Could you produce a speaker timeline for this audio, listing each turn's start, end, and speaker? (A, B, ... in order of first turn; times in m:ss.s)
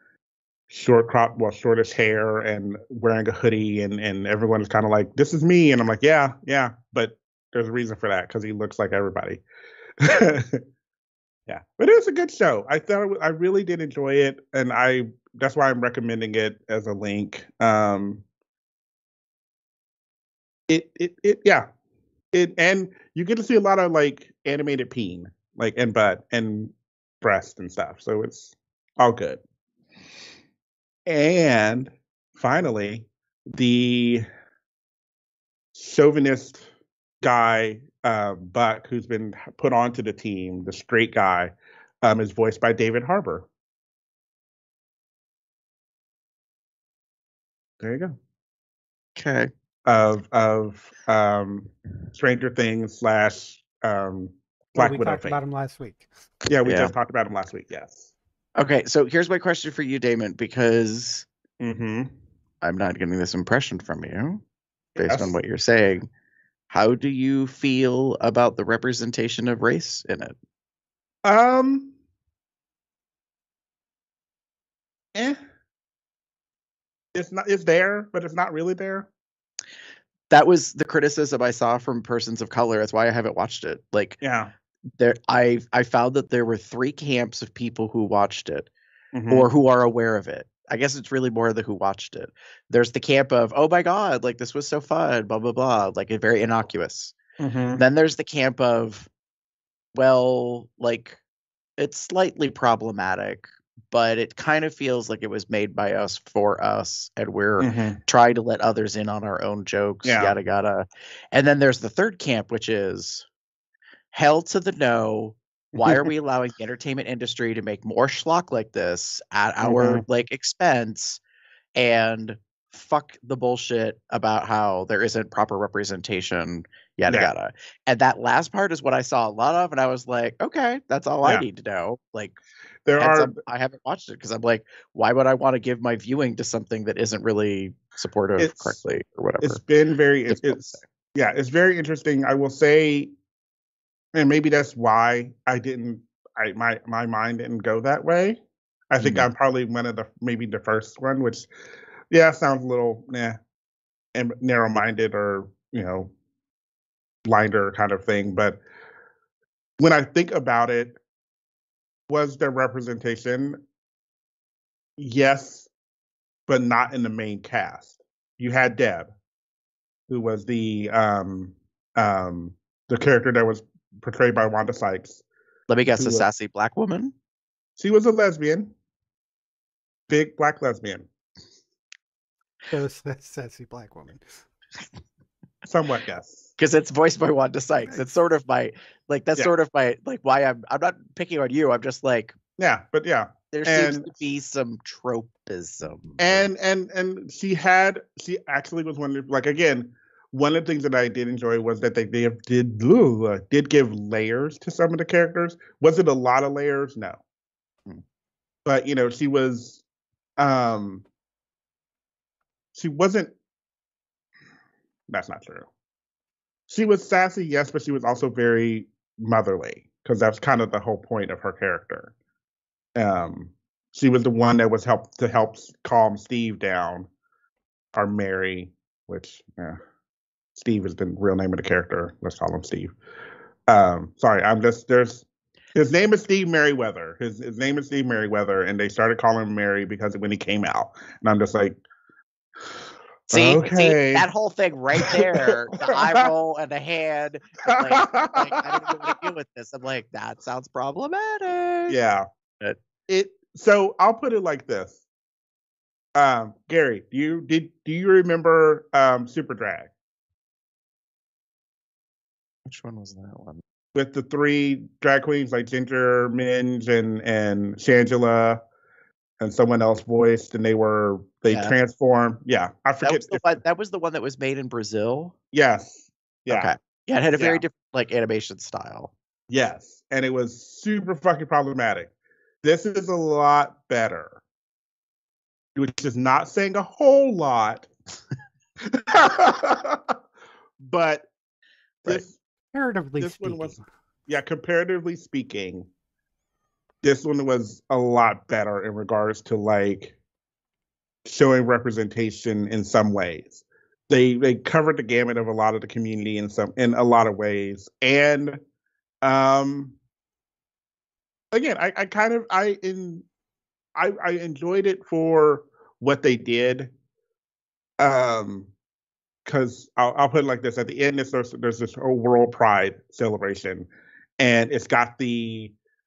0:00.7-0:09.4 A
0:10.0-0:10.6 A
0:11.5-0:18.2 A
0:20.7-0:21.7 A
0:22.3-0:29.4 A
0:31.0-0:34.2 A
0:35.7-0:36.7 A
0:37.2-0:43.5 A
0:47.8-0:48.2 A
0:49.2-0:49.5 B
0:49.9-0:55.4 A
0:54.7-0:56.1 C
0:56.5-0:58.1 A
0:56.6-0:56.9 B
0:58.6-1:01.3 B
1:01.6-1:02.1 A
1:02.6-1:04.4 B
1:05.0-1:05.3 A
1:05.0-1:06.1 B
1:06.7-1:10.3 B
1:11.2-1:11.9 A
1:17.1-1:19.1 A
1:20.3-1:24.2 B
1:24.2-1:24.5 A
1:25.0-1:28.7 B
1:29.1-1:29.5 A
1:29.3-1:37.2 B
1:37.4-1:37.8 A
1:37.8-1:39.1 B
1:39.9-1:41.2 B
1:41.8-1:53.3 B
1:47.6-1:48.0 A
1:50.0-1:50.3 A
1:54.1-2:01.2 B
1:55.7-1:56.1 A
1:59.6-2:00.0 A
2:01.8-2:12.4 B
2:12.9-2:13.4 A
2:13.0-2:19.6 B
2:18.4-2:18.8 A
2:19.4-2:23.1 A
2:20.3-2:20.8 B
2:24.1-2:31.5 A
2:29.0-2:29.3 B
2:32.1-2:33.4 A
2:34.1-2:36.1 A
2:37.2-2:38.6 A
2:39.8-2:41.0 A
2:42.1-2:43.6 A
2:45.0-2:45.7 A
2:46.5-2:49.1 A
2:50.1-2:55.2 A
2:55.7-2:57.1 B
2:56.0-2:56.3 A
2:57.8-2:58.7 A
3:00.1-3:01.1 A
3:02.7-3:04.4 C
3:05.6-3:06.5 A
3:06.6-3:12.4 B
3:12.6-3:14.1 A
3:13.5-3:16.5 B
3:16.2-3:27.2 A
3:28.6-3:29.8 A
3:30.4-3:31.0 A
3:32.7-3:33.3 A
3:35.1-3:35.7 A
3:36.7-3:42.1 A
3:43.0-3:47.1 A
3:47.9-3:49.8 A
3:50.6-3:52.9 A
3:53.7-4:01.8 A
4:03.3-4:04.3 A
4:03.3-4:12.0 B
4:04.9-4:06.3 A
4:07.7-4:09.2 A
4:11.9-4:12.3 A
4:13.1-4:15.0 A
4:16.1-4:19.9 A
4:22.6-4:23.6 B
4:23.9-4:28.6 A
4:29.4-4:33.5 A
4:31.5-4:31.8 B
4:33.0-4:35.3 B
4:35.5-4:36.7 A
4:36.5-4:39.1 B
4:37.4-4:37.6 A
4:39.5-4:42.1 A
4:42.6-4:44.4 A
4:45.7-4:47.9 A
4:48.8-4:50.2 A
4:50.8-4:51.3 A
4:52.0-4:52.4 A
4:52.7-4:53.8 C
4:53.2-4:53.8 A
4:54.3-4:55.9 A
4:57.0-5:00.2 A
5:01.2-5:08.6 A
5:09.2-5:10.0 A
5:11.5-5:13.2 A
5:14.0-5:16.9 A
5:18.0-5:18.7 A
5:19.4-5:25.7 A